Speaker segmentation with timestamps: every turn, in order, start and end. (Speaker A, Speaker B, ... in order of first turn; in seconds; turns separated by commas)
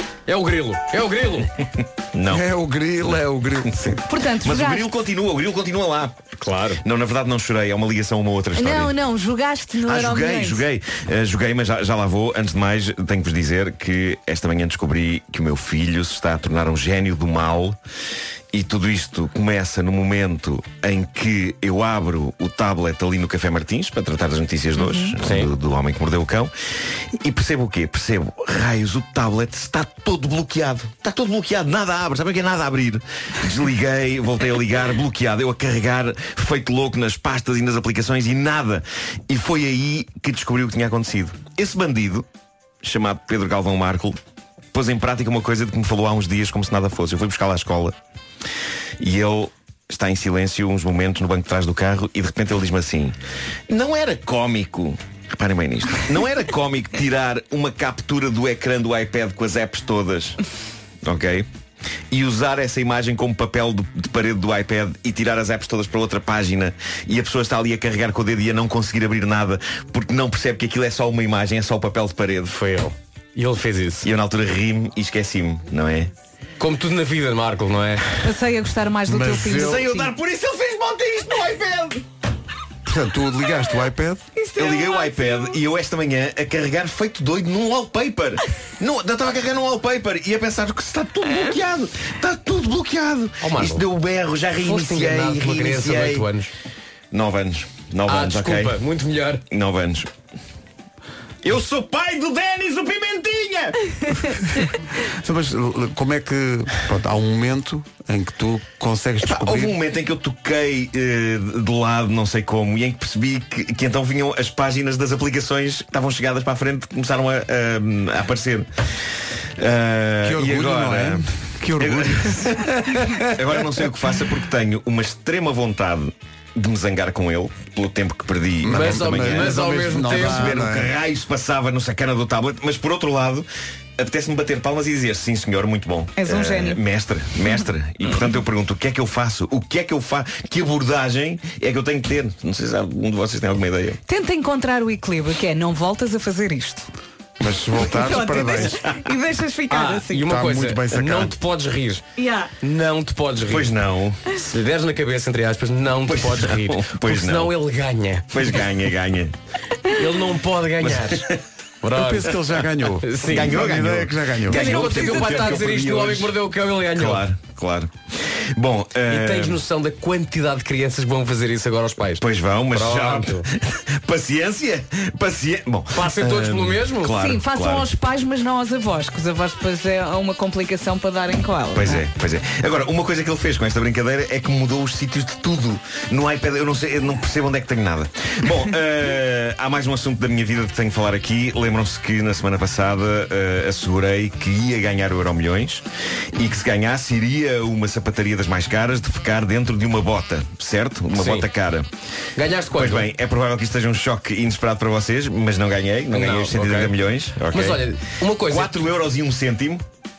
Speaker A: 0.3-1.5, Speaker B: 2.1-2.5, Speaker C: 2.3-4.1, Speaker D: 4.1-4.9, Speaker B: 4.4-6.2, Speaker A: 6.4-6.8, Speaker B: 6.8-8.9, Speaker D: 8.5-10.6, Speaker B: 9.8-17.8, Speaker B: 18.5-26.5, Speaker D: 24.8-25.1, Speaker A: 25.2-25.5, Speaker B: 27.1-42.2, Speaker B: 42.8-44.2, Speaker B: 44.7-47.9, Speaker B: 49.0-53.2, Speaker B: 53.7-60.4, Speaker B: 61.0-61.5, Speaker B: 62.1-72.6, Speaker A: 72.5-74.1, Speaker B: 74.0-76.1, Speaker A: 76.6-78.1, Speaker D: 78.2-80.1, Speaker C: 79.1-79.9, Speaker B: 79.5-82.0, Speaker C: 82.8-84.2, Speaker D: 84.3-85.5, Speaker B: 84.5-96.3, Speaker A: 93.4-93.9, Speaker A: 94.6-96.5, Speaker B: 97.1-98.8, Speaker A: 98.1-99.4, Speaker B: 99.5-100.1, Speaker B: 101.4-103.8, Speaker C: 105.0-109.7, Speaker B: 109.2-118.7, Speaker B: 119.6-121.3, Speaker C: 120.2-123.7, Speaker B: 121.8-122.6, Speaker B: 123.2-133.4, Speaker C: 128.6-130.9, Speaker A: 128.7-130.6, Speaker B: 134.0-144.0, Speaker D: 136.2-136.8, Speaker D: 144.1-146.9, Speaker C: 147.4-148.8, Speaker D: 147.8-150.2, Speaker B: 148.6-149.0, Speaker A: 149.7-152.0, Speaker C: 150.2-151.3, Speaker D: 152.2-152.5, Speaker A: 152.6-153.7, Speaker B: 153.4-154.2, Speaker A: 154.3-158.6, Speaker B: 156.0-157.5, Speaker B: 158.3-159.3, Speaker A: 159.9-161.3, Speaker B: 160.8-161.4, Speaker A: 161.8-162.4, Speaker C: 161.9-164.6, Speaker A: 163.0-163.7, Speaker B: 163.2-166.3, Speaker A: 164.5-167.2, Speaker D: 164.5-165.5, Speaker B: 166.9-169.6, Speaker A: 169.1-173.4, Speaker B: 172.2-177.9, Speaker A: 175.9-177.1, Speaker D: 177.2-182.0, Speaker B: 181.7-201.9, Speaker A: 201.1-201.4, Speaker A: 202.3-203.1, Speaker B: 202.7-209.8, Speaker A: 206.1-206.9, Speaker A: 207.5-208.9